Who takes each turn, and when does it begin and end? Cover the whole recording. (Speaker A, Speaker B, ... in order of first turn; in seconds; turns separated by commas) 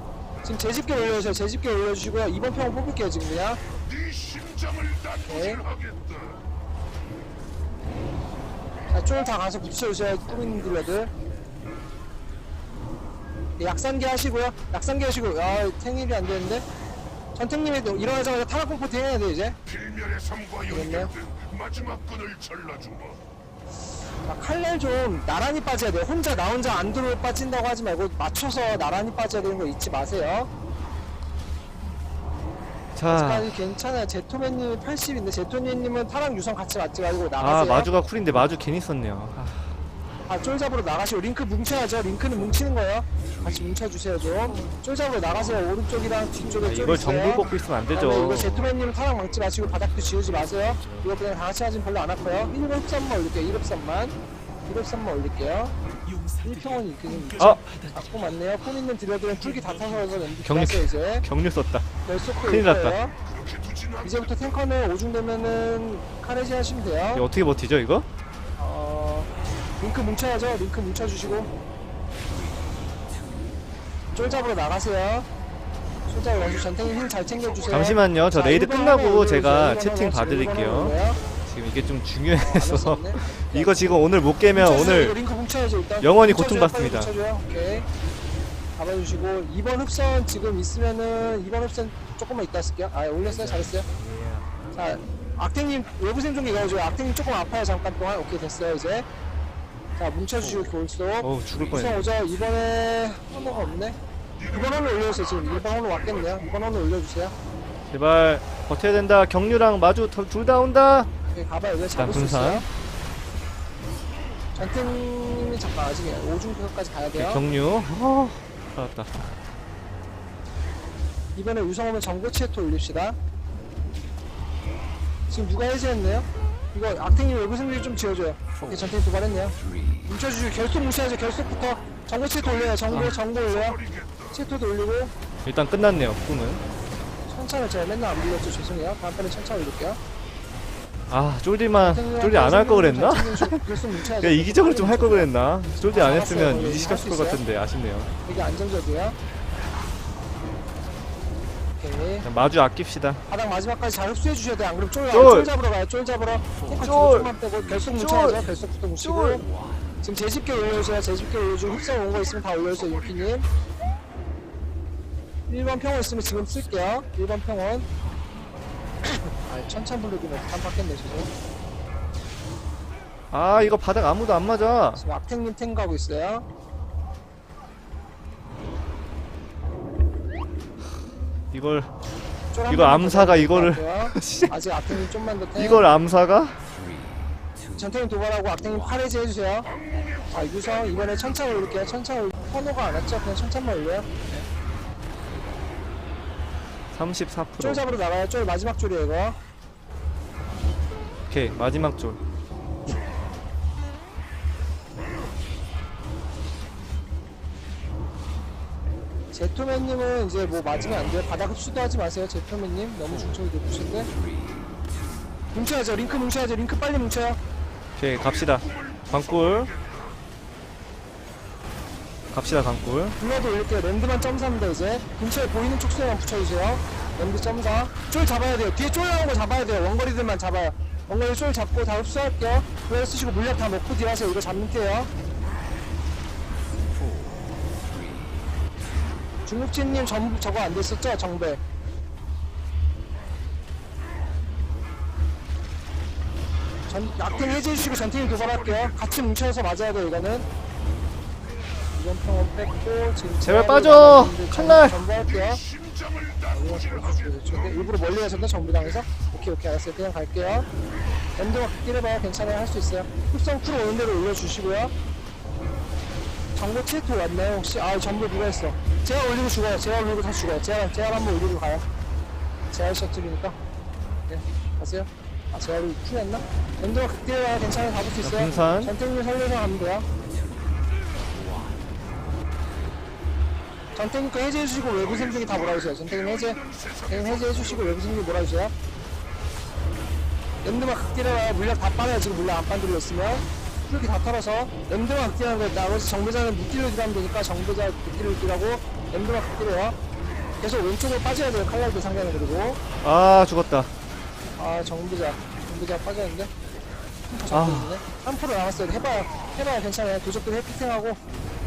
Speaker A: 0.4-3.6, Speaker B: 3.9-6.4, Speaker A: 5.3-5.6, Speaker A: 8.9-11.1, Speaker A: 13.6-16.6, Speaker A: 17.3-19.6, Speaker B: 19.7-23.2, Speaker A: 20.7-21.1, Speaker A: 24.2-30.5, Speaker C: 33.0-33.5, Speaker A: 33.1-37.9, Speaker C: 37.4-39.7, Speaker A: 40.3-55.7, Speaker C: 46.6-48.6, Speaker A: 56.4-61.3, Speaker C: 60.4-61.9, Speaker A: 62.0-63.1, Speaker C: 62.4-63.0, Speaker B: 63.2-64.5, Speaker A: 64.0-67.3, Speaker C: 67.1-68.1, Speaker A: 68.6-69.3, Speaker A: 69.8-71.5, Speaker A: 74.1-75.3, Speaker A: 76.1-81.2, Speaker B: 76.6-77.8, Speaker C: 77.7-85.2, Speaker A: 82.4-83.9, Speaker A: 84.5-87.9, Speaker C: 86.0-87.1, Speaker A: 88.8-93.9, Speaker A: 94.7-99.1, Speaker A: 100.0-107.3, Speaker C: 101.2-102.2, Speaker B: 104.4-106.5, Speaker C: 107.9-111.1, Speaker A: 111.3-112.7, Speaker C: 112.0-112.6, Speaker A: 114.5-117.4, Speaker C: 117.2-119.1, Speaker A: 121.3-123.2, Speaker A: 125.3-133.8, Speaker B: 132.6-134.3, Speaker C: 132.9-133.1, Speaker A: 134.3-135.1, Speaker C: 135.4-136.6, Speaker A: 137.3-140.0, Speaker C: 141.1-148.1, Speaker A: 141.8-145.3, Speaker A: 145.9-147.4, Speaker A: 148.2-149.2, Speaker A: 151.8-152.3, Speaker C: 152.2-153.2, Speaker A: 153.3-159.4, Speaker C: 155.1-155.5, Speaker C: 156.8-157.3, Speaker C: 157.8-158.4, Speaker C: 159.0-159.4, Speaker A: 160.0-163.4, Speaker B: 161.9-163.4, Speaker A: 165.5-167.9, Speaker A: 169.0-171.3, Speaker C: 173.3-175.0, Speaker A: 175.0-176.4, Speaker C: 181.5-181.9, Speaker A: 182.5-185.9, Speaker C: 182.7-185.0, Speaker C: 185.5-186.6, Speaker A: 187.8-189.7, Speaker B: 189.7-191.9, Speaker A: 190.3-194.4, Speaker C: 196.9-197.8, Speaker A: 197.6-199.4, Speaker C: 201.3-202.2, Speaker A: 209.3-214.1, Speaker A: 215.5-217.4, Speaker C: 218.0-219.7, Speaker B: 218.2-220.2, Speaker C: 222.3-223.2, Speaker A: 223.2-235.1, Speaker A: 239.4-241.6, Speaker A: 246.9-250.4, Speaker B: 247.3-249.1, Speaker A: 251.9-255.6, Speaker C: 253.4-254.9, Speaker B: 255.4-258.8, Speaker A: 256.5-260.7, Speaker A: 261.4-264.9, Speaker A: 266.5-271.8, Speaker A: 272.7-273.6, Speaker A: 274.3-280.1, Speaker C: 278.2-278.9, Speaker A: 283.9-288.7, Speaker B: 285.0-288.3, Speaker A: 290.6-299.9, Speaker A: 300.6-302.8, Speaker C: 303.0-303.9, Speaker A: 304.6-306.5, Speaker A: 307.3-311.2, Speaker C: 307.5-308.0